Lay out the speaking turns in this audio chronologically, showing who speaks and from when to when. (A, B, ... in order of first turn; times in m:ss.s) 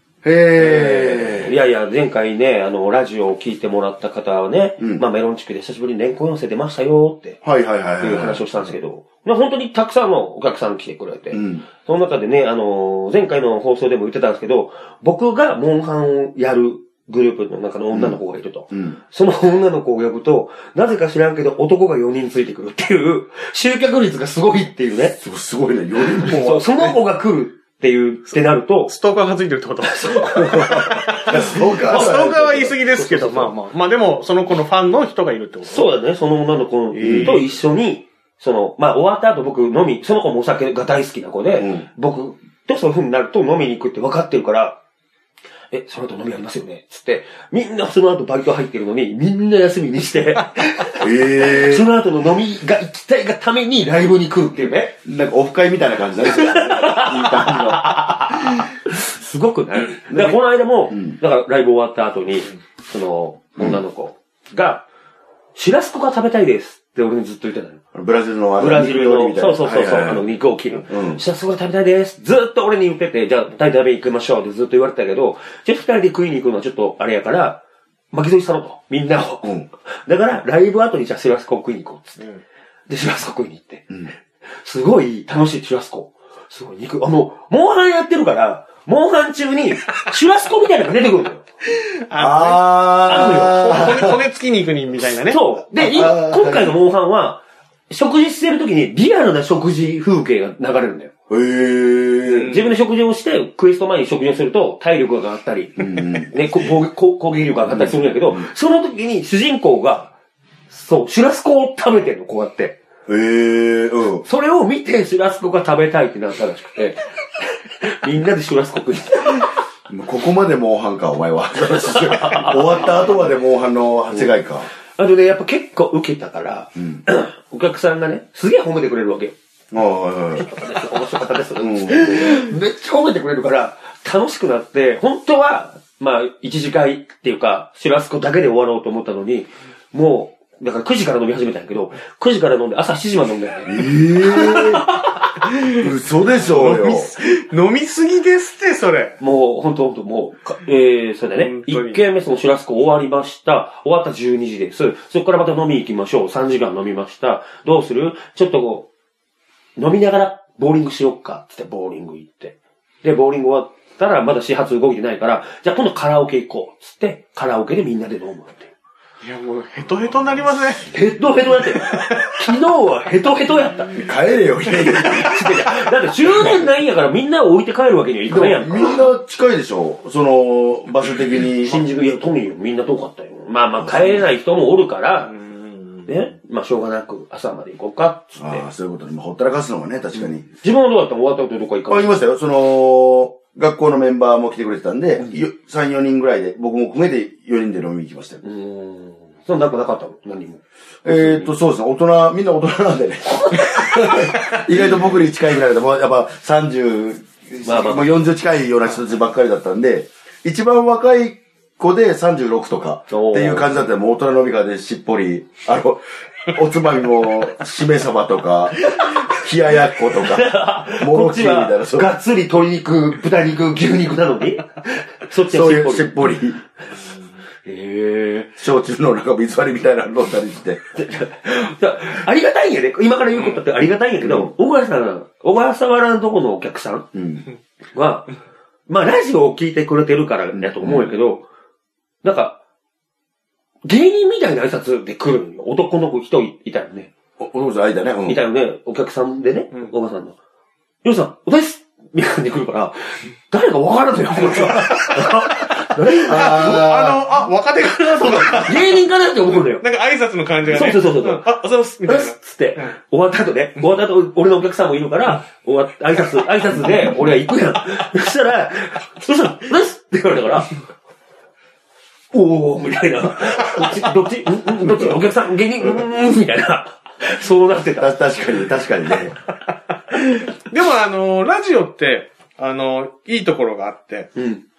0:00.2-0:01.5 A
0:00.6-0:07.4 B
0:04.8-0:05.0 A
0:07.4-0:08.7 A
0:08.0-0:25.2 B
0:11.3-0:11.6 A
0:17.9-0:18.2 A
0:18.7-0:19.0 A
0:25.2-0:27.0 A
0:26.1-0:28.9 B
0:28.9-0:35.9 C
0:29.9-0:33.6 B
0:30.9-0:32.4 A
0:35.6-0:44.8 B
0:36.9-0:37.4 C
0:37.0-0:37.4 A
0:41.5-0:41.9 A
0:45.7-0:55.0 B
0:51.0-0:51.9 A
0:55.0-0:58.6 A
0:56.2-1:04.8 B
1:00.1-1:01.2 A
1:05.5-1:07.8 B
1:07.9-1:10.2 A
1:08.6-1:23.9 B
1:10.9-1:11.2 A
1:24.6-1:31.4 B
1:32.1-1:35.4 C
1:32.2-1:34.2 A
1:33.0-1:34.0 B
1:35.2-1:41.1 B
1:35.8-1:36.8 A
1:41.3-1:42.6 A
1:42.3-1:42.7 C
1:42.3-1:50.1 B
1:45.8-1:46.3 A
1:47.6-1:48.5 A
1:50.7-1:52.8 B
1:53.1-1:54.2 A
1:54.2-1:59.6 B
1:59.9-2:04.7 A
2:01.8-2:03.1 B
2:04.9-2:09.3 B
2:06.8-2:07.0 A
2:09.7-2:10.4 A
2:10.3-2:25.3 B
2:11.6-2:12.5 A
2:23.6-2:24.8 A
2:25.7-2:27.1 A
2:26.3-2:29.2 C
2:29.2-2:38.9 B
2:31.3-2:32.0 C
2:39.8-2:48.7 B
2:49.2-2:50.9 C
2:50.9-2:54.1 B
2:51.8-2:52.3 C
2:53.8-2:55.3 A
2:54.8-2:59.0 B
2:58.3-3:01.8 A
3:01.6-3:05.3 B
3:03.8-3:04.2 A
3:05.2-3:06.3 C
3:06.1-3:08.6 B
3:08.3-3:10.5 A
3:10.1-3:12.1 B
3:11.9-3:18.4 A
3:18.4-3:21.5 B
3:21.0-3:42.1 A
3:23.3-3:24.6 B
3:27.6-3:28.2 B
3:33.1-3:33.7 B
3:38.8-3:39.3 B
3:40.1-3:46.3 B
3:45.5-3:46.6 A
3:47.6-3:48.5 B
3:48.6-3:50.8 A
3:50.9-3:57.1 B
3:53.3-3:53.6 C
3:54.2-3:54.5 A
3:57.1-3:57.5 A
3:57.9-3:58.4 B
3:58.9-4:01.4 B
4:00.5-4:01.1 A
4:02.2-4:02.6 B
4:03.8-4:07.1 B
4:07.4-4:08.4 A
4:08.2-4:10.4 B
4:11.0-4:16.8 B
4:14.6-4:15.3 C
4:16.2-4:17.2 A
4:16.3-4:22.9 C
4:18.5-4:19.8 B
4:20.7-4:30.8 B
4:32.3-4:38.2 B
4:34.9-4:35.2 A
4:38.0-4:39.3 A
4:40.6-4:44.3 C
4:44.4-4:44.6 B